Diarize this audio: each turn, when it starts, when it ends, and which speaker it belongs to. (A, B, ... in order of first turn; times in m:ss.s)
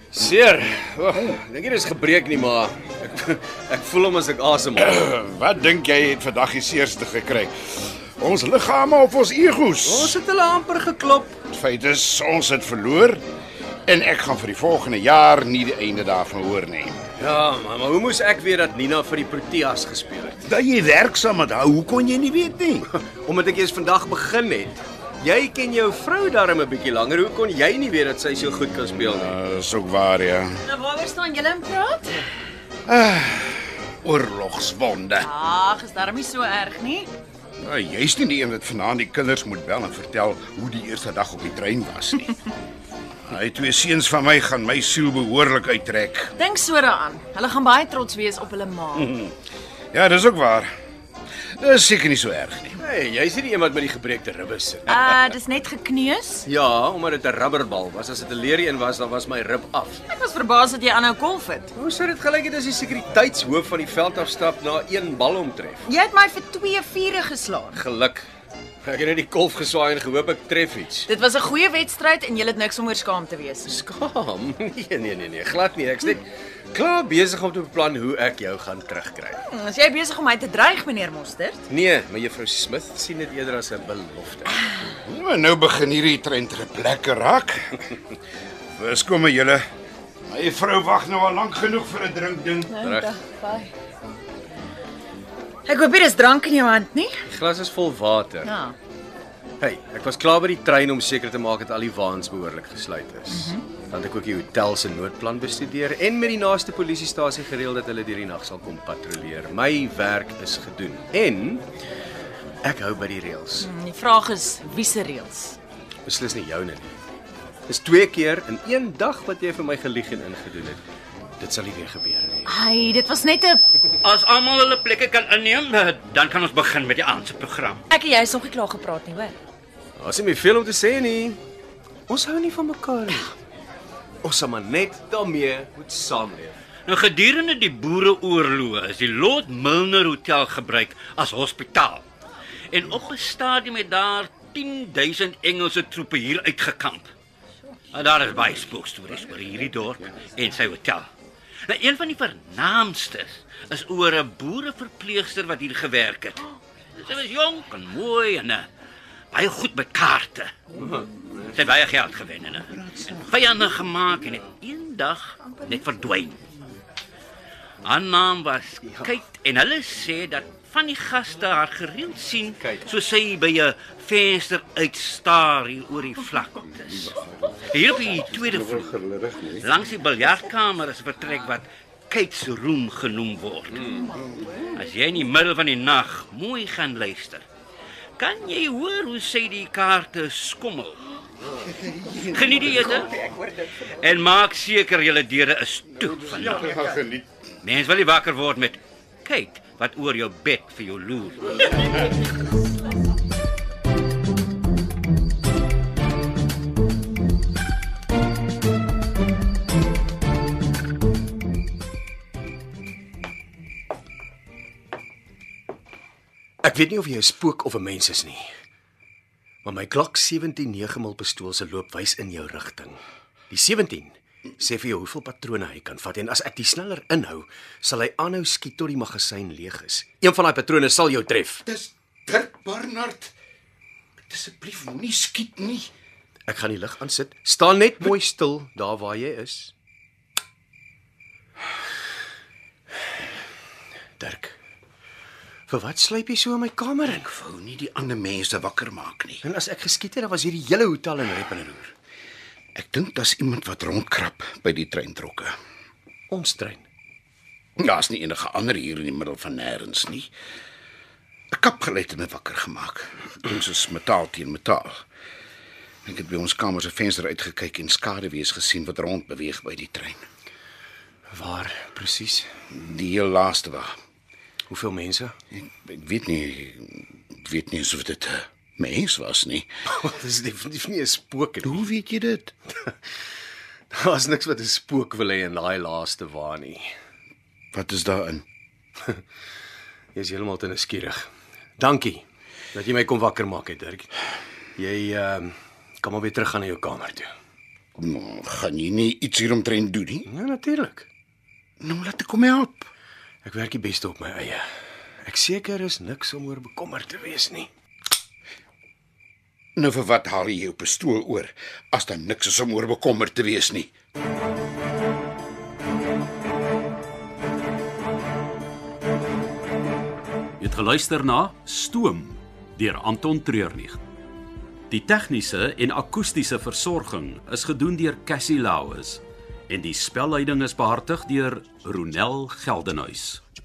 0:00.1-0:05.0 A
0:04.8-0:10.2 B
0:09.8-0:11.3 A
0:11.5-0:13.2 B
0:13.9-0:17.0 B
0:17.2-0:20.4 A
0:20.4-0:22.9 B
0:22.9-0:29.3 A
0:29.0-0:30.6 B
0:30.7-0:32.2 C
0:32.8-0:35.3 B
0:35.2-0:37.1 C
0:37.6-0:42.3 B
0:43.3-0:46.3 B
0:46.4-0:49.1 C
0:49.0-0:49.3 B
0:49.9-0:50.7 B
0:51.6-0:52.8 B
0:52.8-0:55.1 A
0:54.9-0:56.4 C
0:56.4-1:00.0 A
1:00.1-1:01.7 C
1:01.8-1:05.8 A
1:05.9-1:07.8 C
1:07.7-1:08.2 A
1:08.8-1:11.1 A
1:11.1-1:13.7 C
1:13.6-1:19.4 A
1:19.5-1:21.6 C
1:21.7-1:24.6 A
1:24.9-1:27.9 B
1:28.8-1:29.6 B
1:30.3-1:32.8 B
1:32.7-1:33.7 C
1:32.8-1:33.2 A
1:35.6-1:37.1 C
1:37.3-1:38.5 A
1:38.4-1:38.8 C
1:39.6-1:51.6 A
1:43.3-1:43.6 C
1:52.6-1:53.7 A
1:53.6-1:55.6 C
1:56.0-1:56.9 A
1:57.7-2:00.8 A
2:01.4-2:02.5 A
2:02.5-2:03.6 C
2:04.0-2:07.8 D
2:07.9-2:09.4 C
2:10.0-2:11.4 A
2:12.1-2:13.3 A
2:14.2-2:16.6 A
2:16.8-2:22.0 D
2:22.7-2:27.1 D
2:27.9-2:31.1 D
2:31.6-2:38.7 D
2:39.3-2:40.5 D
2:40.8-2:41.0 A
2:41.5-2:46.4 D
2:42.7-2:43.6 B
2:47.8-2:58.9 D
2:52.6-2:52.9 A
2:58.3-2:59.6 B
2:59.6-3:04.1 D
3:04.7-3:07.4 D
3:08.2-3:11.0 D
3:11.6-3:13.3 B
3:12.2-3:13.3 D
3:13.8-3:16.8 D
3:16.4-3:17.2 B
3:17.6-3:21.8 D
3:36.6-3:38.4 A
3:39.6-3:51.6 A
3:51.6-3:53.3 B
3:54.3-3:55.9 B
3:56.5-3:59.7 A
4:04.2-4:04.6 A
4:05.7-4:07.3 A
4:07.1-4:09.4 B
4:09.4-4:11.9 A
4:12.8-4:15.5 B
4:16.3-4:16.8 A
4:17.8-4:20.3 B
4:21.5-4:25.0 B
4:26.0-4:30.2 B
4:31.3-4:32.5 A
4:32.7-4:33.9 B
4:34.7-4:35.3 A
4:35.5-4:39.7 B
4:39.9-4:41.8 A
4:41.6-4:42.5 B
4:43.9-4:46.9 A
4:47.7-4:48.4 B
4:50.1-4:51.2 A
4:51.8-4:54.1 A
4:54.8-4:57.3 A
4:58.0-5:00.3 B
5:00.2-5:01.1 A
5:01.8-5:02.9 B
5:03.4-5:04.6 A
5:05.2-5:07.7 A
5:09.8-5:13.9 B
5:20.6-5:24.0 E
5:24.9-5:33.4 E